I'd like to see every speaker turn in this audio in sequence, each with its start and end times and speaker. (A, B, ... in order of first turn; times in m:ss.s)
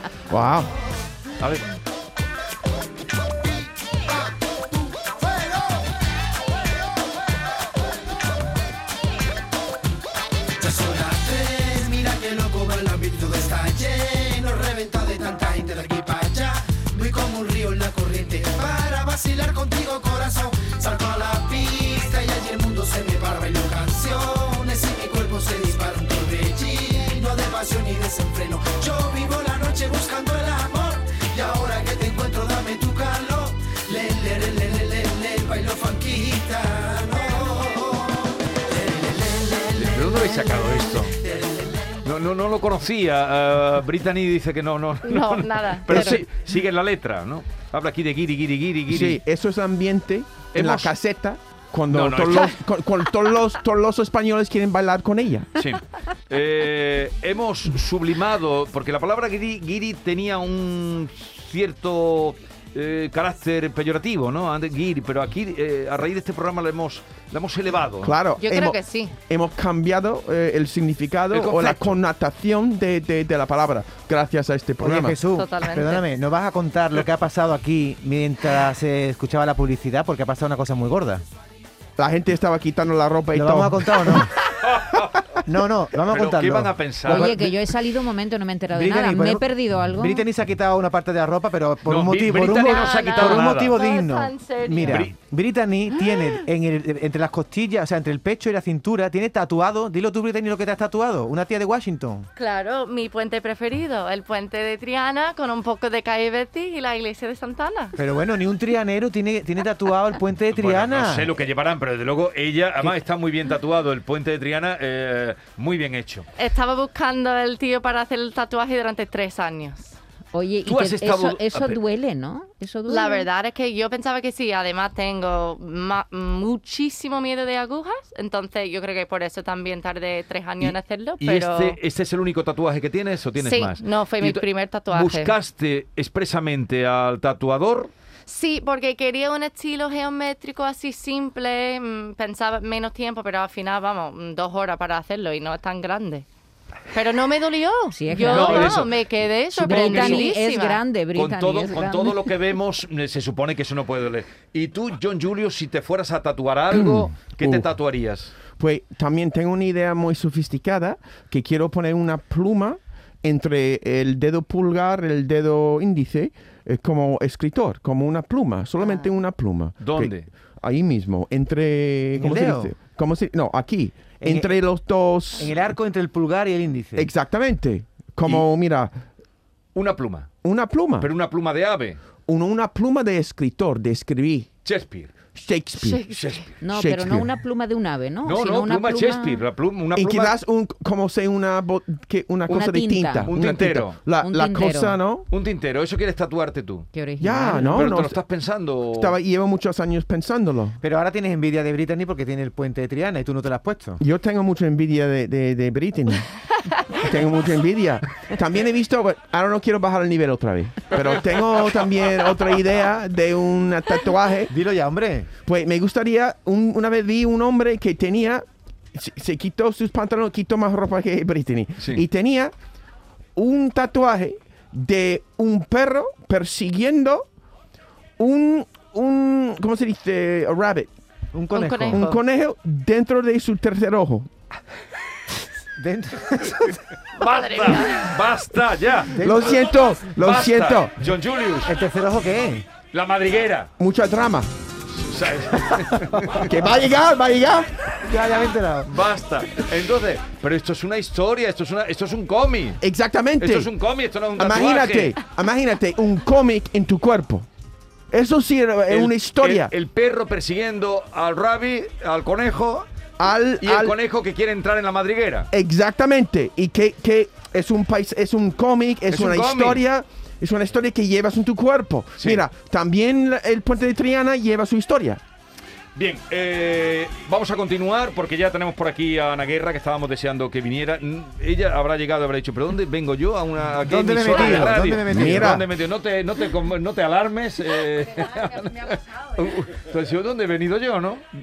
0:00.3-0:00.7 A
0:10.7-0:37.6 B
0:39.7-0:41.2 C
0:42.0-0:49.2 C
0:45.0-0:46.2 D
0:45.9-0:46.2 A
0:48.9-0:55.6 A
0:50.5-0:50.9 C
0:51.9-0:52.6 C
0:55.6-1:08.1 C
1:08.0-1:15.2 A
1:08.4-1:09.1 D
1:11.3-1:12.0 C
1:14.8-1:21.2 E
1:15.3-1:16.0 D
1:22.0-1:24.3 A
1:23.3-1:24.3 E
1:24.6-1:25.2 C
1:25.4-1:27.5 E
1:26.0-1:27.5 C
1:27.1-1:30.2 F
1:28.7-1:42.3 E
1:31.9-1:33.8 C
1:32.5-1:35.1 D
1:34.8-1:35.1 C
1:42.4-1:47.9 D
1:48.0-1:51.3 E
1:50.5-1:56.3 C
1:56.4-2:00.0 D
2:00.3-2:03.3 F
2:00.6-2:01.8 C
2:02.9-2:11.8 D
2:10.6-2:17.9 C
2:13.4-2:15.3 D
2:18.3-2:26.3 D
2:26.9-2:30.8 D
2:27.9-2:28.9 F
2:28.1-2:30.3 C
2:29.6-2:32.2 F
2:31.1-2:38.3 C
2:36.7-2:37.7 A
2:38.6-2:55.6 A
2:48.8-2:49.1 D
2:49.8-2:50.3 C
2:52.1-2:52.8 E
2:54.2-2:54.5 E
2:55.4-2:57.1 E
2:57.0-2:59.0 A
2:59.8-3:00.3 C
3:00.4-3:01.1 A
3:01.0-3:02.0 C
3:02.3-3:04.5 A
3:04.6-3:05.1 C
3:05.4-3:06.1 A
3:06.1-3:06.5 C
3:06.6-3:09.4 F
3:06.7-3:07.3 A
3:08.2-3:10.4 C
3:10.0-3:15.3 A
3:12.5-3:13.3 F
3:13.3-3:14.0 C
3:14.2-3:15.0 F
3:15.3-3:16.9 C
3:16.9-3:17.9 F
3:17.2-3:18.2 A
3:17.7-3:19.2 C
3:19.0-3:20.8 A
3:20.8-3:24.0 E
3:24.0-3:26.3 A
3:26.9-3:34.5 A
3:34.5-3:35.3 E
3:35.4-3:42.5 A
3:43.4-3:47.3 A
3:48.2-3:50.9 A
3:51.3-3:52.1 E
3:51.5-3:52.2 D
3:51.9-3:54.3 A
3:55.8-3:56.8 E
3:57.2-4:01.7 C
3:57.2-3:58.1 D
3:59.1-3:59.5 E
3:59.2-4:00.9 A
4:01.6-4:02.6 E
4:02.9-4:03.7 C
4:03.8-4:04.5 A
4:05.0-4:06.4 C
4:06.4-4:07.7 A
4:08.0-4:08.9 E
4:08.9-4:12.8 C
4:12.8-4:13.7 A
4:13.4-4:15.2 C
4:14.4-4:17.5 A
4:18.1-4:19.7 A
4:18.9-4:22.9 C
4:23.2-4:24.0 A
4:23.6-4:25.5 C
4:25.5-4:35.2 A
4:29.1-4:29.8 C
4:36.0-4:51.2 C
4:43.8-4:45.6 E
4:44.3-4:45.6 A